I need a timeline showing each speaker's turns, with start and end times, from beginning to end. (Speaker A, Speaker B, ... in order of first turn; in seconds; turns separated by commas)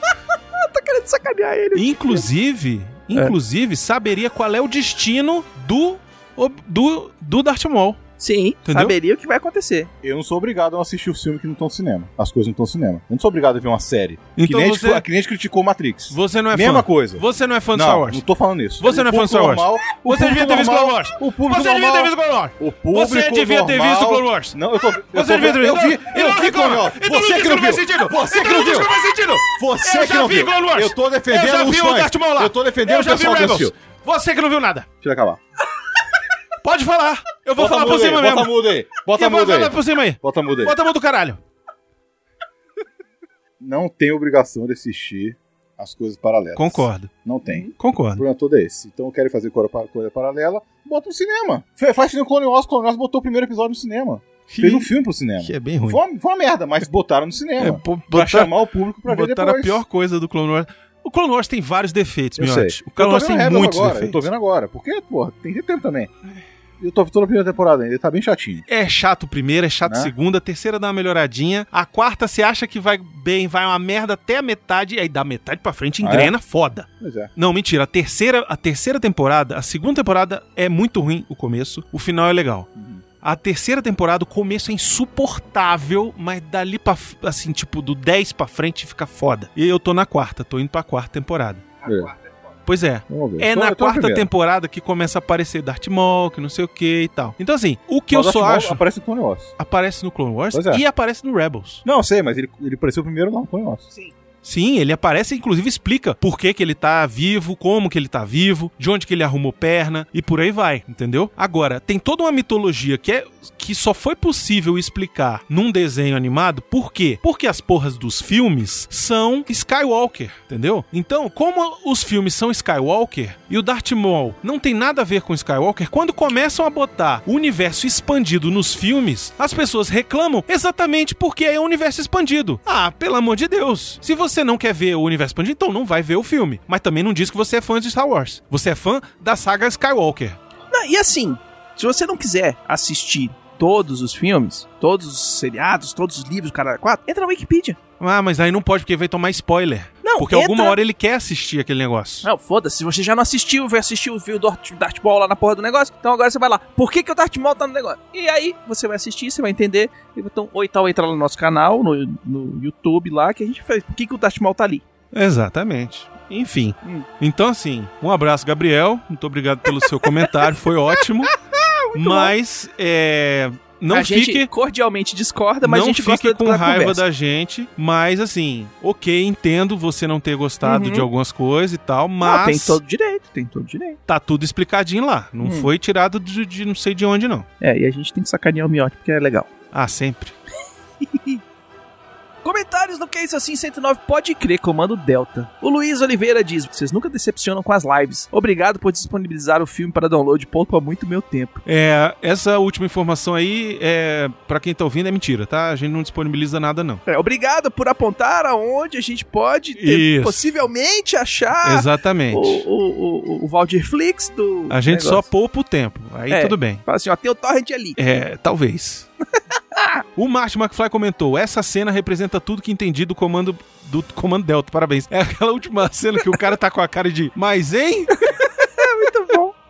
Speaker A: 0.5-2.3, Speaker B: 1.7-8.0, Speaker A: 8.2-9.9, Speaker B: 8.7-8.9, Speaker C: 10.0-33.7, Speaker B: 14.3-15.0, Speaker B: 16.1-18.2, Speaker B: 18.8-34.9, Speaker C: 35.0-35.4, Speaker B: 36.6-41.4, Speaker C: 37.6-40.8, Speaker C: 43.6-59.8, Speaker B: 46.5-47.1, Speaker A: 47.5-47.7, Speaker B: 47.8-48.2, Speaker B: 54.5-56.0, Speaker B: 57.6-58.5, Speaker B: 59.0-64.3, Speaker C: 62.4-66.1, Speaker C: 66.8-68.7, Speaker B: 68.7-82.7, Speaker C: 69.8-70.1, Speaker C: 76.0-76.3, Speaker C: 77.0-77.3, Speaker C: 82.8-83.0, Speaker B: 83.2-91.7, Speaker C: 91.8-92.1, Speaker B: 92.7-98.8, Speaker C: 93.1-94.3, Speaker C: 98.1-99.5, Speaker B: 99.6-101.8, Speaker C: 100.5-100.8, Speaker C: 101.8-103.9, Speaker B: 104.4-140.4, Speaker A: 140.7-147.8, Speaker B: 148.0-152.3, Speaker A: 150.0-150.8, Speaker A: 152.2-164.8, Speaker B: 165.1-171.4, Speaker B: 171.9-174.5, Speaker A: 171.9-172.3, Speaker A: 173.9-177.0, Speaker B: 175.6-182.8, Speaker A: 180.6-181.1, Speaker A: 182.2-184.0, Speaker B: 184.1-187.5, Speaker A: 185.4-185.7, Speaker A: 187.6-189.5, Speaker B: 189.7-190.3, Speaker A: 191.0-191.4, Speaker A: 192.4-201.6, Speaker B: 201.6-207.0, Speaker A: 207.1-215.2, Speaker B: 209.8-210.4, Speaker B: 211.6-212.6, Speaker B: 214.7-216.8, Speaker A: 216.3-218.0, Speaker B: 218.0-219.1, Speaker A: 219.6-220.0, Speaker B: 220.2-228.3, Speaker A: 228.3-229.5